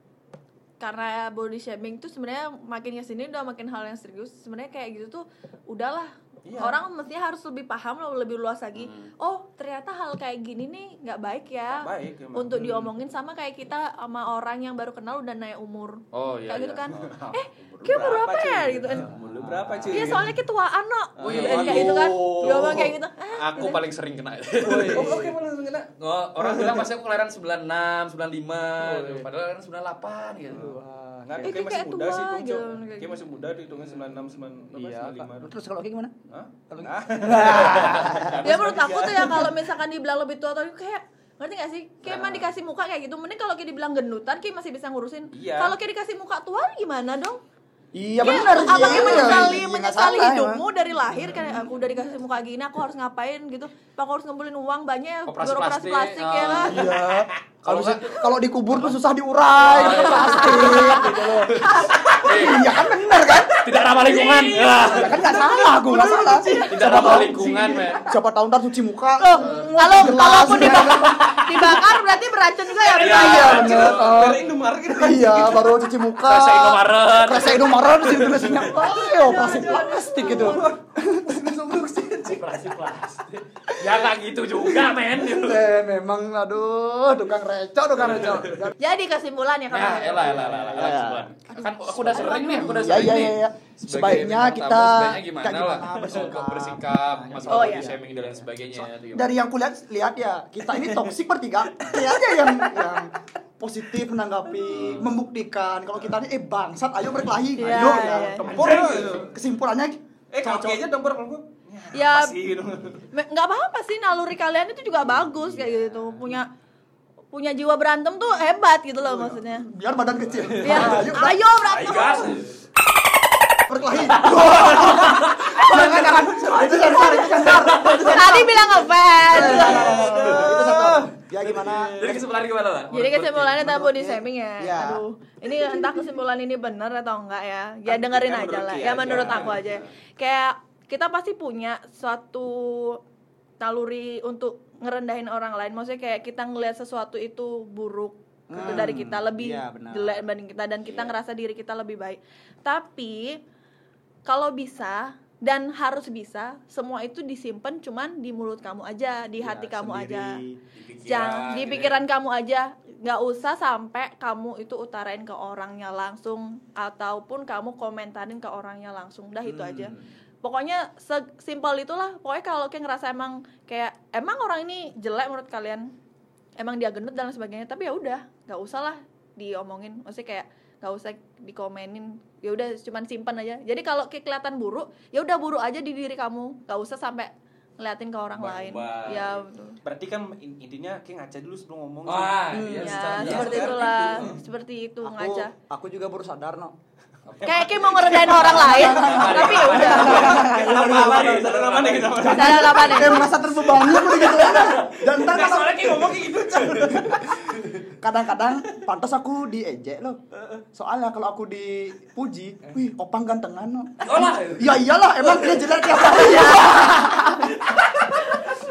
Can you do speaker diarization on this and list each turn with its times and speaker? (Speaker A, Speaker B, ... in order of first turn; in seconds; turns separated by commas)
Speaker A: 0.8-19.1, Speaker B: 6.4-6.8, Speaker C: 8.8-9.1, Speaker B: 11.8-12.9, Speaker C: 16.1-17.1, Speaker B: 16.9-20.3, Speaker C: 19.0-20.2, Speaker A: 19.9-23.8, Speaker B: 21.2-22.8, Speaker C: 21.2-25.3, Speaker D: 21.6-22.9, Speaker B: 24.6-26.9, Speaker D: 24.6-25.4, Speaker C: 26.0-30.7, Speaker D: 28.8-29.3, Speaker D: 30.5-31.6, Speaker B: 31.2-35.5, Speaker A: 31.4-33.2, Speaker D: 33.9-34.2, Speaker D: 34.7-36.1, Speaker B: 36.3-39.6, Speaker D: 36.7-38.6, Speaker C: 37.6-38.3, Speaker A: 38.4-47.4, Speaker B: 45.3-45.7, Speaker D: 47.9-50.6, Speaker A: 48.2-56.8, Speaker B: 48.9-49.2, Speaker C: 55.3-57.1, Speaker D: 56.7-63.6, Speaker C: 57.6-59.0, Speaker C: 59.6-65.3, Speaker A: 59.9-61.0, Speaker A: 61.7-62.0, Speaker B: 62.0-62.3, Speaker B: 63.5-68.1, Speaker D: 64.8-71.4, Speaker C: 66.5-68.0, Speaker A: 69.2-73.7, Speaker C: 69.4-71.9, Speaker B: 72.8-75.8, Speaker C: 72.9-74.3, Speaker D: 73.0-82.4, Speaker C: 76.2-78.8, Speaker A: 78.8-80.6, Speaker B: 79.2-80.9, Speaker C: 82.2-85.7, Speaker D: 85.1-88.7, Speaker C: 88.0-88.7, Speaker A: 88.8-90.7, Speaker C: 89.7-99.3, Speaker D: 90.2-98.2, Speaker A: 92.1-93.0, Speaker A: 97.5-97.9, Speaker D: 98.7-110.8, Speaker B: 100.7-101.1, Speaker B: 101.8-103.1, Speaker B: 104.5-105.0, Speaker C: 104.7-105.1, Speaker A: 107.6-108.5, Speaker B: 107.8-109.3, Speaker C: 108.5-109.0, Speaker B: 110.3-113.0, Speaker A: 111.9-112.3, Speaker A: 113.1-116.5, Speaker C: 115.4-116.1, Speaker A: 117.3-119.7, Speaker D: 119.0-121.4, Speaker A: 120.6-122.3, Speaker B: 120.7-121.0, Speaker B: 121.7-122.4, Speaker C: 121.7-122.5, Speaker D: 123.7-132.1, Speaker C: 124.0-128.5, Speaker A: 127.3-130.1, Speaker B: 129.3-131.1, Speaker C: 129.4-133.7, Speaker B: 131.7-132.1, Speaker A: 132.9-143.0, Speaker D: 133.5-135.0, Speaker B: 137.9-139.7, Speaker C: 139.0-139.9, Speaker A: 143.6-153.4, Speaker D: 148.5-150.2, Speaker A: 154.2-160.4, Speaker D: 159.4-160.6, Speaker C: 160.7-162.0, Speaker A: 161.0-175.9, Speaker D: 169.4-170.1, Speaker A: 176.6-189.8, Speaker C: 188.4-189.4, Speaker B: 189.8-194.3, Speaker C: 192.0-194.3, Speaker D: 192.5-193.9, Speaker A: 192.8-195.5, Speaker D: 195.0-196.7, Speaker C: 197.2-202.4, Speaker A: 197.4-200.7, Speaker D: 198.1-206.1, Speaker B: 199.3-203.2, Speaker A: 202.2-203.3, Speaker C: 203.7-207.8, Speaker B: 203.9-204.3, Speaker B: 205.2-207.0, Speaker D: 206.7-210.2, Speaker D: 210.7-217.5, Speaker C: 214.0-218.4, Speaker A: 216.2-217.3